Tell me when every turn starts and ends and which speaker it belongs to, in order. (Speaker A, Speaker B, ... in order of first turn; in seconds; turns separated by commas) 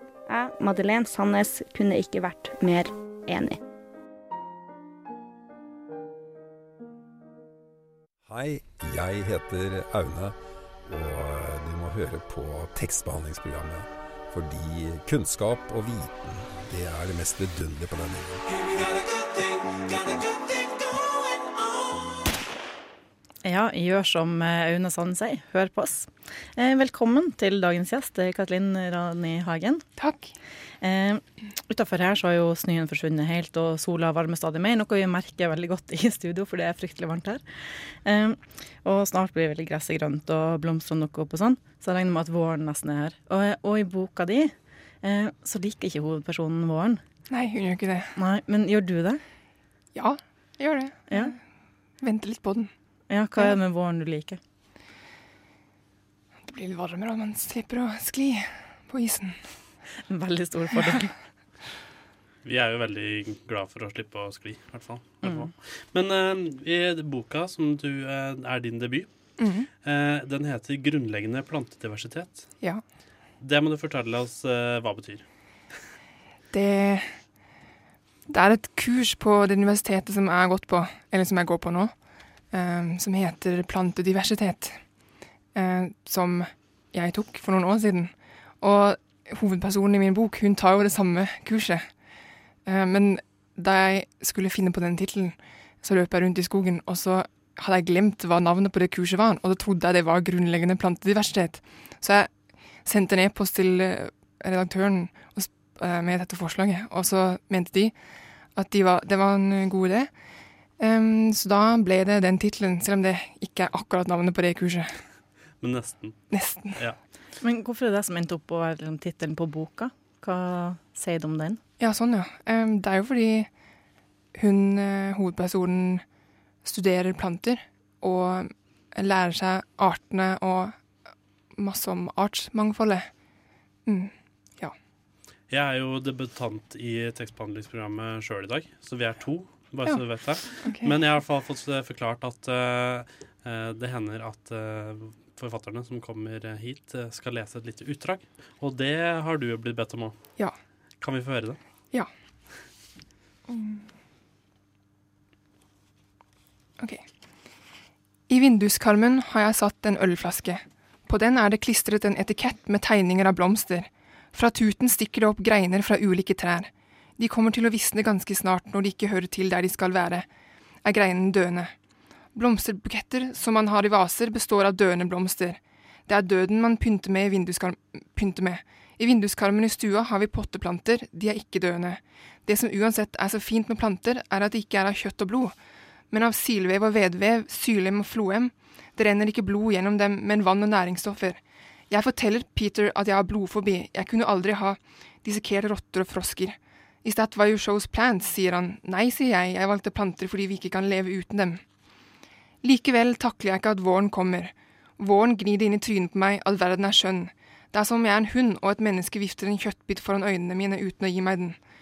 Speaker A: 0.3-3.6, Speaker B: 8.2-18.4, Speaker C: 23.4-29.8, Speaker D: 30.0-30.3, Speaker C: 30.8-47.0, Speaker D: 47.3-48.1, Speaker C: 48.1-49.2, Speaker D: 49.9-51.4, Speaker C: 51.1-51.3, Speaker D: 52.0-52.7, Speaker C: 53.1-54.4, Speaker D: 56.4-59.4, Speaker C: 60.1-61.1, Speaker E: 62.4-69.1, Speaker C: 65.2-65.5, Speaker D: 69.4-69.7, Speaker E: 69.8-72.5, Speaker E: 73.4-75.2, Speaker D: 76.5-77.2, Speaker D: 78.3-81.9, Speaker D: 82.5-84.8, Speaker D: 85.5-91.9, Speaker D: 92.7-102.3, Speaker D: 102.8-107.9, Speaker D: 108.5-110.1, Speaker D: 110.8-115.0, Speaker E: 115.6-116.2, Speaker D: 116.3-116.8, Speaker C: 117.4-121.6, Speaker D: 121.8-123.5, Speaker D: 124.3-126.0, Speaker D: 126.6-130.8, Speaker D: 131.6-133.1, Speaker D: 133.8-134.7, Speaker E: 135.5-150.2, Speaker D: 139.8-140.9, Speaker E: 151.0-151.6, Speaker D: 153.5-153.9, Speaker D: 156.8-157.0, Speaker D: 158.3-170.2, Speaker D: 170.8-171.7, Speaker D: 172.3-185.5, Speaker D: 186.1-201.6, Speaker D: 202.6-211.6